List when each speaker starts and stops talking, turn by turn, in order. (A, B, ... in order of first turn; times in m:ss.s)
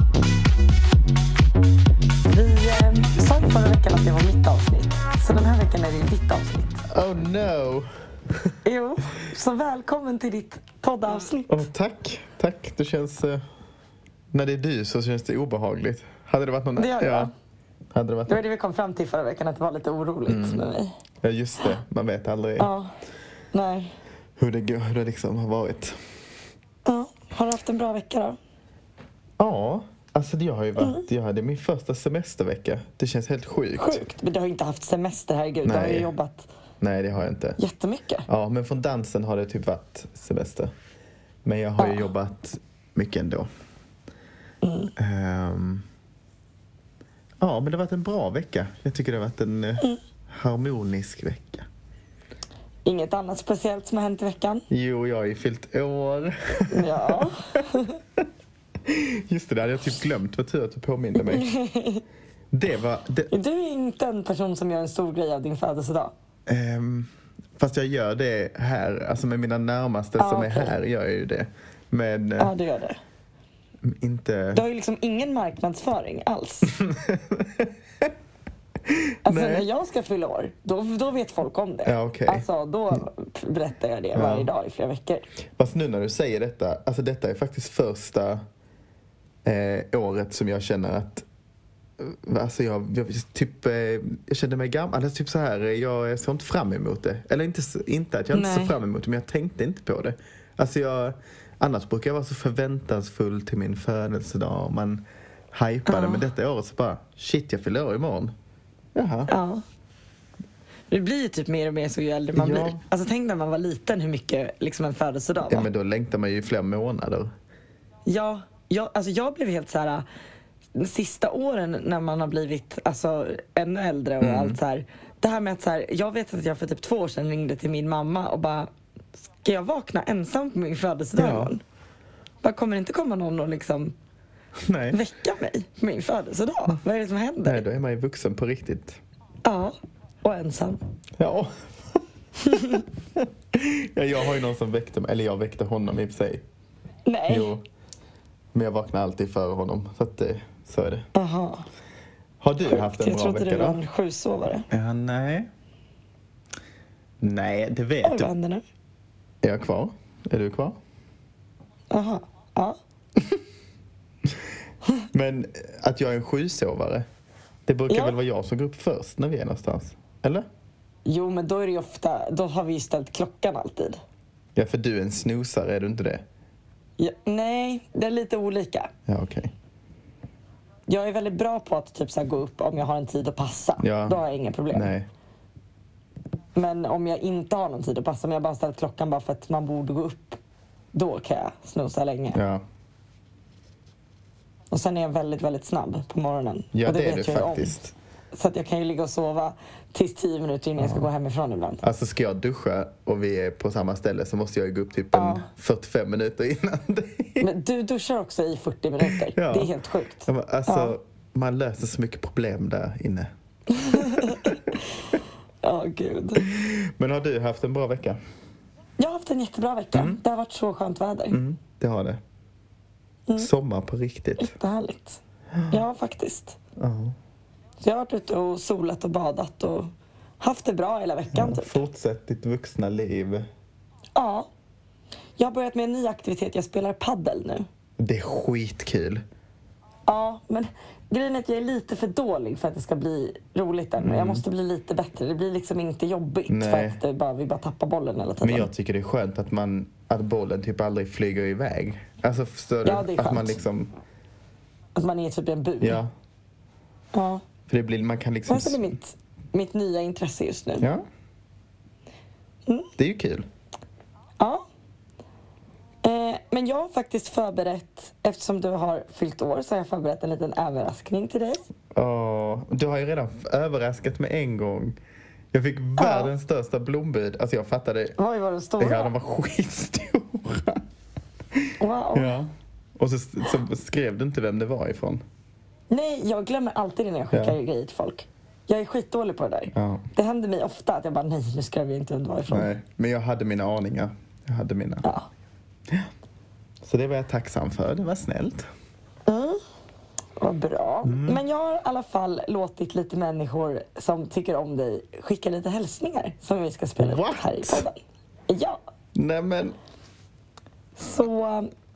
0:02.3-0:06.8 A
0:06.9-0:07.9 B
0:08.6-0:11.6 A
0:11.4-0:13.4 B
0:14.3-0:17.3 B
0:16.8-0:17.3 A
0:17.9-0:18.4 B
0:18.3-0:20.9 A
0:20.3-0:20.6 B
0:21.2-0:22.7 B
0:22.6-0:22.9 A
0:23.5-0:23.9 A
0:24.4-0:26.0 B
0:26.8-0:28.4 A
0:29.4-0:34.0 B
0:30.8-0:31.0 A
0:33.8-0:36.5 A
0:35.6-0:36.1 B
0:36.8-0:37.6 B
0:37.6-0:38.2 A
0:38.3-0:40.7 B
0:41.4-0:43.5 B
0:44.6-0:44.9 A
0:45.0-0:45.8 B
0:47.4-0:51.7 B
0:52.8-0:54.6 A
0:54.7-0:57.3 B
0:56.7-0:58.0 A
0:58.8-1:01.4 B
1:01.2-1:02.0 A
1:02.5-1:03.3 B
1:03.3-1:06.1 A
1:06.5-1:12.5 B
1:10.2-1:10.7 A
1:12.4-1:13.0 A
1:13.8-1:14.6 B
1:14.5-1:16.7 A
1:16.8-1:18.1 B
1:18.9-1:19.7 B
1:19.2-1:25.3 A
1:21.8-1:22.5 B
1:24.1-1:24.5 B
1:25.6-1:28.4 B
1:29.4-1:31.2 B
1:32.0-1:48.3 B
1:38.3-1:38.7 A
1:45.9-1:46.2 A
1:48.9-1:49.3 B
1:49.3-1:49.6 A
1:50.9-1:55.7 A
1:52.4-1:52.8 B
1:55.5-1:57.3 B
1:58.0-2:00.0 A
2:00.7-2:08.7 A
2:04.2-2:04.6 B
2:09.4-2:11.6 A
2:11.2-2:11.5 B
2:12.4-2:14.0 A
2:14.6-2:15.0 B
2:14.9-2:17.6 A
2:17.4-2:19.0 B
2:19.4-2:20.8 A
2:21.2-2:22.0 B
2:22.4-2:22.8 A
2:22.6-2:26.4 B
2:27.0-2:27.5 A
2:27.3-2:27.6 B
2:28.5-2:31.0 B
2:31.1-2:31.6 A
2:32.4-2:33.8 B
2:32.6-2:34.6 A
2:34.7-2:35.5 B
2:37.2-2:38.3 B
2:38.0-2:38.6 A
2:39.4-2:40.8 B
2:41.9-2:42.8 A
2:45.1-2:47.0 B
2:47.7-2:50.5 B
2:47.9-2:48.2 A
2:51.0-2:54.0 A
2:54.6-2:56.2 B
2:57.0-2:58.9 A
2:59.1-2:59.5 B
3:00.9-3:04.9 A
3:03.8-3:05.1 B
3:06.5-3:10.4 A
3:10.9-3:12.4 A
3:12.3-3:12.6 B
3:14.7-3:17.8 A
3:16.7-3:17.9 B
3:18.3-3:21.8 A
3:20.8-3:21.1 B
3:21.8-3:27.5 B
3:25.1-3:25.5 A
3:27.4-3:30.9 A
3:29.0-3:33.3 B
3:33.7-3:34.5 A
3:33.9-3:34.5 B
3:35.6-3:36.4 A
3:36.4-3:38.2 B
3:39.0-3:41.4 A
3:39.9-3:40.2 B
3:41.3-3:42.2 B
3:43.4-3:44.5 B
3:44.4-3:46.6 A
3:46.8-3:47.2 B
3:47.8-3:51.8 A
3:51.3-3:53.5 B
3:54.1-3:54.5 A
3:55.4-3:57.7 A
3:58.0-3:59.2 B
4:00.1-4:08.7 A
4:04.0-4:04.4 B
4:06.5-4:07.0 B
4:08.4-4:13.9 B
4:12.8-4:13.6 A
4:15.0-4:16.0 A
4:15.8-4:16.1 B
4:17.1-4:17.4 A
4:17.7-4:18.9 B
4:18.5-4:20.9 A
4:20.8-4:21.0 B
4:23.0-4:23.5 B
4:24.4-4:24.6 A
4:26.0-4:31.6 A
4:31.9-4:35.0 B
4:35.5-4:38.2 B
4:36.0-4:36.3 A
4:38.2-4:39.1 A
4:38.8-4:40.8 B
4:41.5-4:45.2 B
4:41.8-4:42.3 A
4:45.9-4:52.7 A
4:49.7-4:50.1 B
4:52.5-4:55.1 B
4:56.8-4:58.6 B
4:59.3-4:59.6 A
5:00.4-5:08.0 A
5:01.0-5:01.4 B
5:07.0-5:07.8 B
5:08.5-5:08.8 A
5:09.1-5:09.8 B
5:11.0-5:11.7 A